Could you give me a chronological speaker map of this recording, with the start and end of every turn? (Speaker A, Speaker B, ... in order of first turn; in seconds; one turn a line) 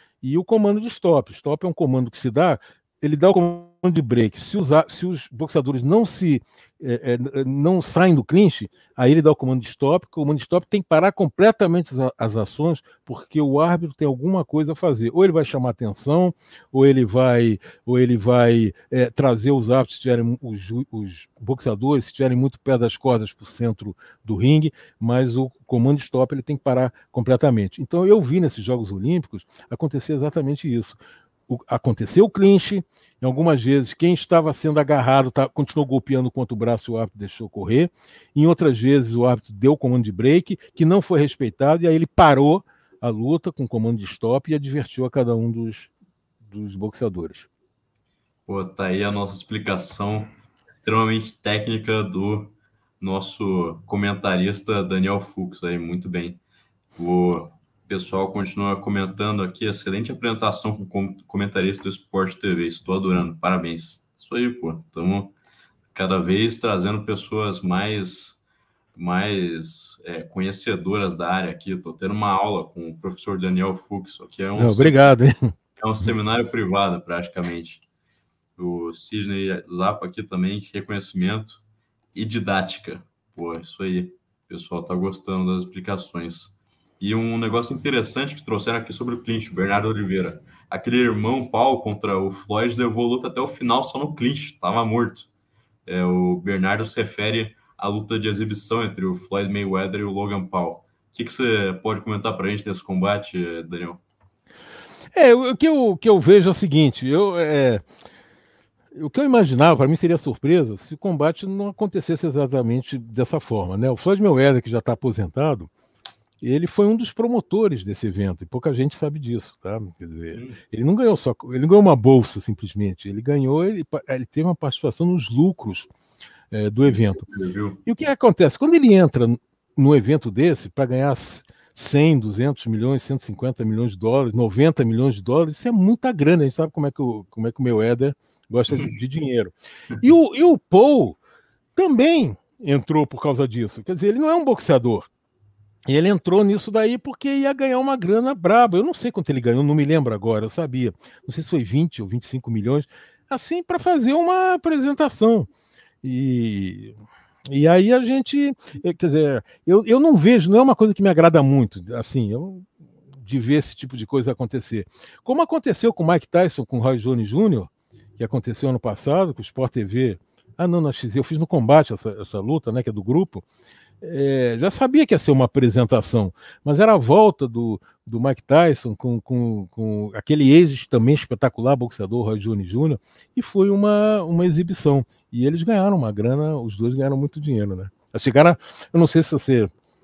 Speaker A: 0.2-31.0
Speaker A: 31.5-45.9
Speaker A: 46.4-47.5
Speaker B: 48.5-56.4
Speaker B: 57.0-65.3
Speaker B: 65.9-68.4
Speaker B: 68.9-75.0
Speaker A: 74.6-75.4
Speaker B: 75.8-77.8
Speaker B: 78.6-81.6
Speaker B: 82.1-95.3
Speaker B: 95.8-104.0
Speaker A: 105.1-107.8
Speaker A: 108.9-115.7
Speaker A: 116.4-125.9
Speaker B: 120.3-120.6
Speaker A: 126.5-127.2
Speaker B: 126.9-127.8
Speaker A: 127.8-141.2
Speaker A: 141.8-145.1
Speaker A: 145.8-155.5
Speaker A: 156.0-156.9
Speaker A: 157.5-162.7
Speaker A: 163.2-173.4
Speaker A: 174.0-189.7